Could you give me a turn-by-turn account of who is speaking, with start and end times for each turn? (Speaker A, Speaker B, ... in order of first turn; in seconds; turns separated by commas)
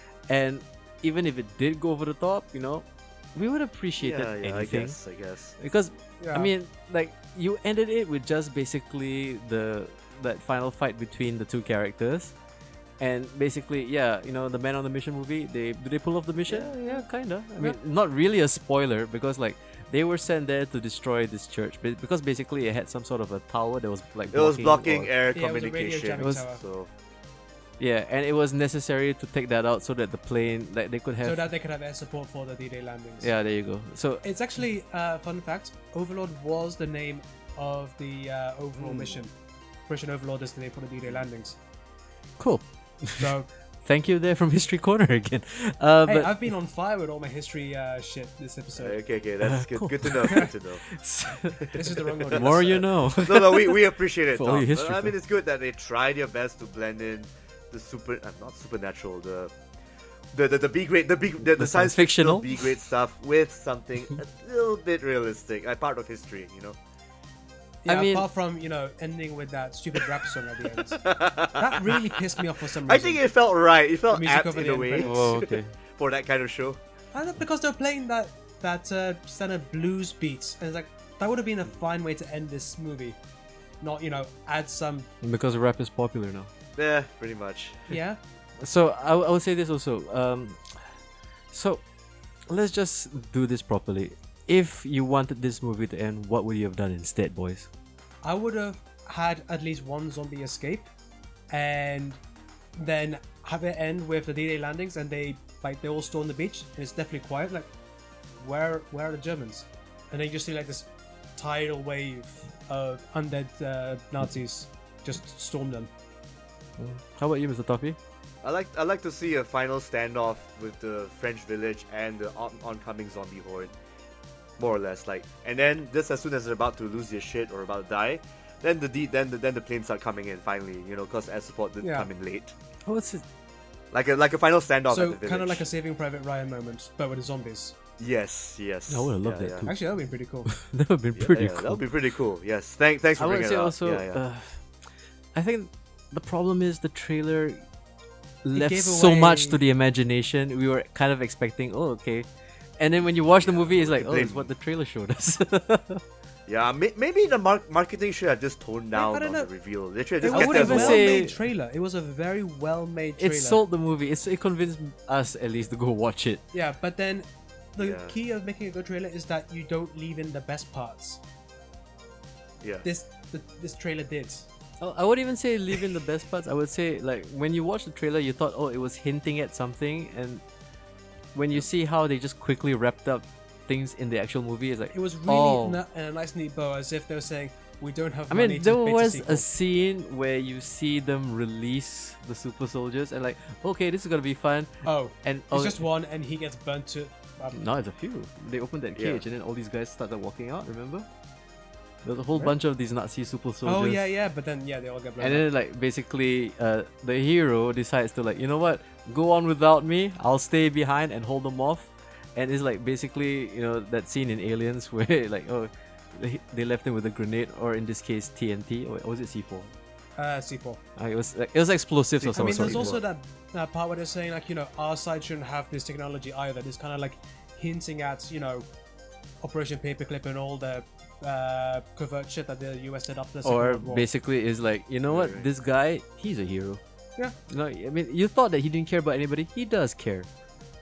Speaker A: 0.3-5.0, Speaker B: 4.0-5.6, Speaker A: 5.6-12.3, Speaker C: 6.2-6.5, Speaker A: 13.0-25.1, Speaker B: 24.3-26.9, Speaker C: 25.3-26.6, Speaker A: 26.2-26.4, Speaker A: 27.8-31.5, Speaker C: 31.2-33.3, Speaker A: 33.2-34.2, Speaker C: 34.2-39.3, Speaker B: 38.8-39.2, Speaker C: 39.9-41.6, Speaker A: 42.4-46.4, Speaker C: 43.2-43.5, Speaker C: 46.0-49.0, Speaker B: 48.8-50.8, Speaker A: 49.4-55.1, Speaker B: 51.6-59.5, Speaker C: 51.7-52.8, Speaker B: 60.3-66.8, Speaker A: 61.4-62.6, Speaker C: 67.8-73.2, Speaker A: 67.9-68.3, Speaker B: 70.8-72.2, Speaker B: 72.8-76.8, Speaker C: 74.1-75.1, Speaker A: 75.0-75.7, Speaker C: 77.1-83.2, Speaker C: 83.8-85.1, Speaker A: 85.2-86.5, Speaker B: 86.8-87.9, Speaker C: 87.9-88.2, Speaker A: 88.6-90.9, Speaker A: 91.5-91.8, Speaker A: 92.5-97.7, Speaker C: 98.2-100.9, Speaker C: 101.5-102.2, Speaker C: 102.8-107.7, Speaker C: 108.4-115.9, Speaker A: 116.8-118.0, Speaker B: 118.4-123.7, Speaker B: 124.6-132.5, Speaker C: 131.8-132.1, Speaker A: 132.8-133.2, Speaker B: 133.9-135.7, Speaker C: 134.9-137.7, Speaker B: 138.0-139.7, Speaker A: 138.9-139.8, Speaker C: 139.6-140.5, Speaker A: 140.5-141.8, Speaker B: 141.1-144.2, Speaker A: 143.2-144.6, Speaker A: 145.3-147.6, Speaker A: 148.4-152.2, Speaker C: 148.5-149.6, Speaker A: 152.8-156.0, Speaker B: 153.3-154.5, Speaker B: 156.5-161.2, Speaker C: 158.9-159.5, Speaker C: 160.2-163.6, Speaker A: 160.2-161.3, Speaker A: 163.2-166.4, Speaker C: 166.5-171.2, Speaker B: 167.8-168.1, Speaker C: 172.8-174.5, Speaker A: 174.8-180.4, Speaker A: 181.3-185.8, Speaker C: 184.9-189.4, Speaker A: 188.3-195.8, Speaker C: 194.8-197.6, Speaker A: 197.5-201.1, Speaker B: 198.9-199.2, Speaker A: 202.0-204.0, Speaker C: 203.6-205.5, Speaker A: 205.2-219.7, Speaker C: 220.2-220.8, Speaker A: 221.0-223.0, Speaker B: 222.2-223.0, Speaker C: 222.3-228.7, Speaker C: 229.4-234.1, Speaker A: 233.4-236.8, Speaker B: 235.1-235.5, Speaker A: 237.5-240.3